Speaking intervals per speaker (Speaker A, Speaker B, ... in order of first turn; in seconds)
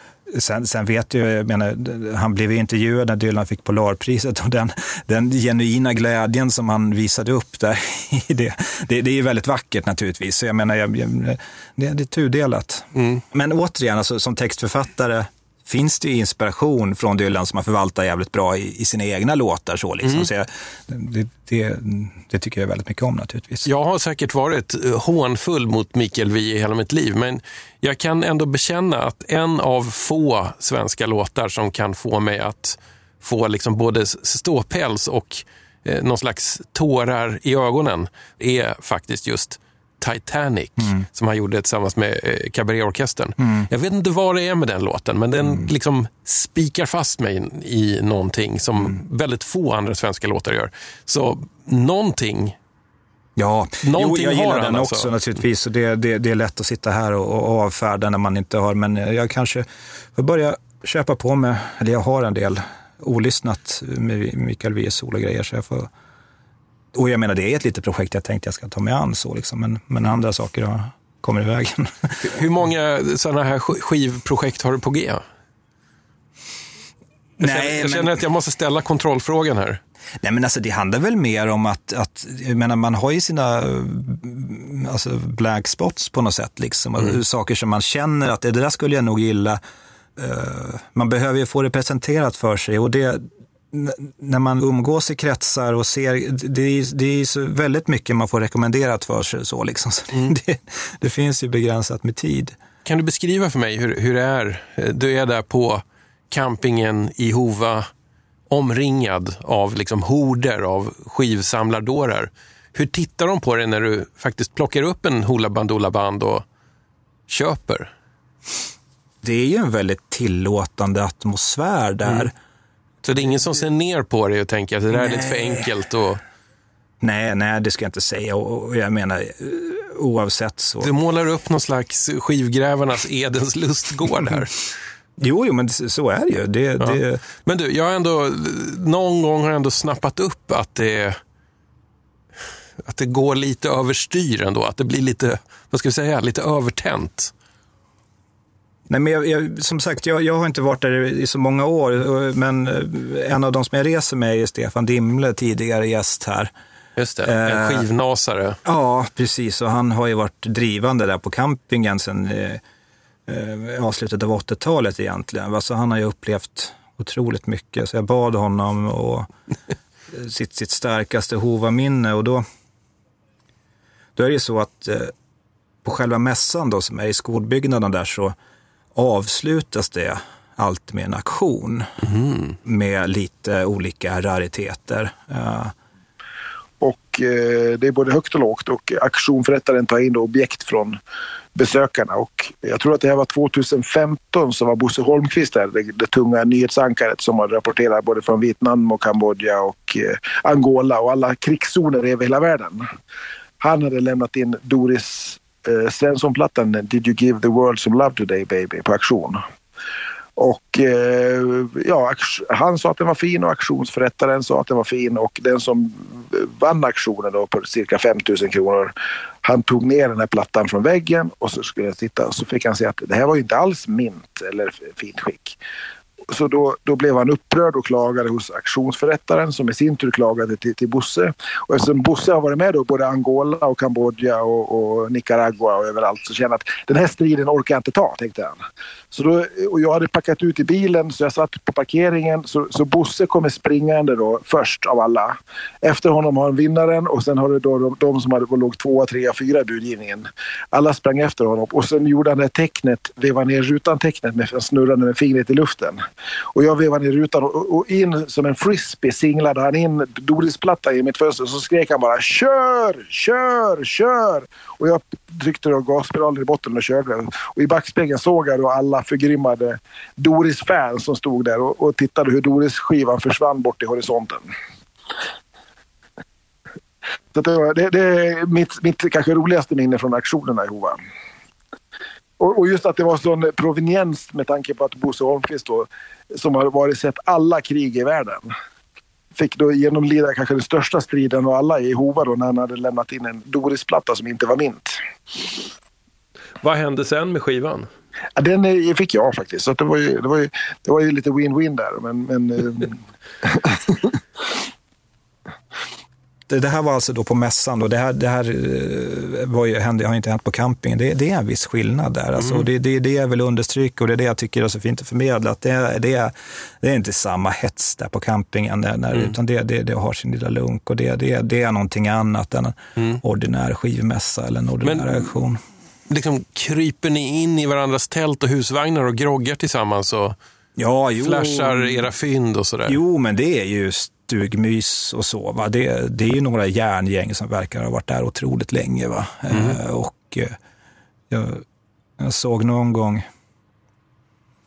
Speaker A: 0.3-23.7, 40.8-41.1, 43.4-43.7, 53.4-65.9, 66.9-72.2, 77.4-78.2, 80.2-89.6, 90.2-102.6, 119.2-122.3, 124.9-125.7, 127.0-130.9, 135.2-137.2, 148.9-156.5, 157.2-157.8, 158.7-162.6, 163.3-169.3, 170.1-172.4, 174.2-175.1, 175.8-178.3, 178.9-181.9, 182.6-185.7, 306.5-325.6, 330.8-332.1, 332.9-340.6, 341.3-341.6, 342.2-343.3
Speaker B: 12.9-13.2, 23.7-52.5, 53.8-55.1, 72.2-75.2, 77.4-79.8, 102.8-107.9, 108.5-116.5, 117.3-117.9, 123.0-126.2, 130.8-134.7, 136.8-141.2, 142.8-147.3, 157.0-158.6, 182.0-182.6, 296.6-297.9, 312.4-312.6, 324.8-325.2, 326.1-330.4, 331.2-333.0, 339.5-339.8
Speaker C: 186.8-191.0, 191.6-202.9, 203.6-209.4, 210.4-218.9, 219.4-225.6, 226.3-256.0, 256.5-274.5, 277.3-281.0, 282.4-288.5, 289.4-295.0, 298.4-304.1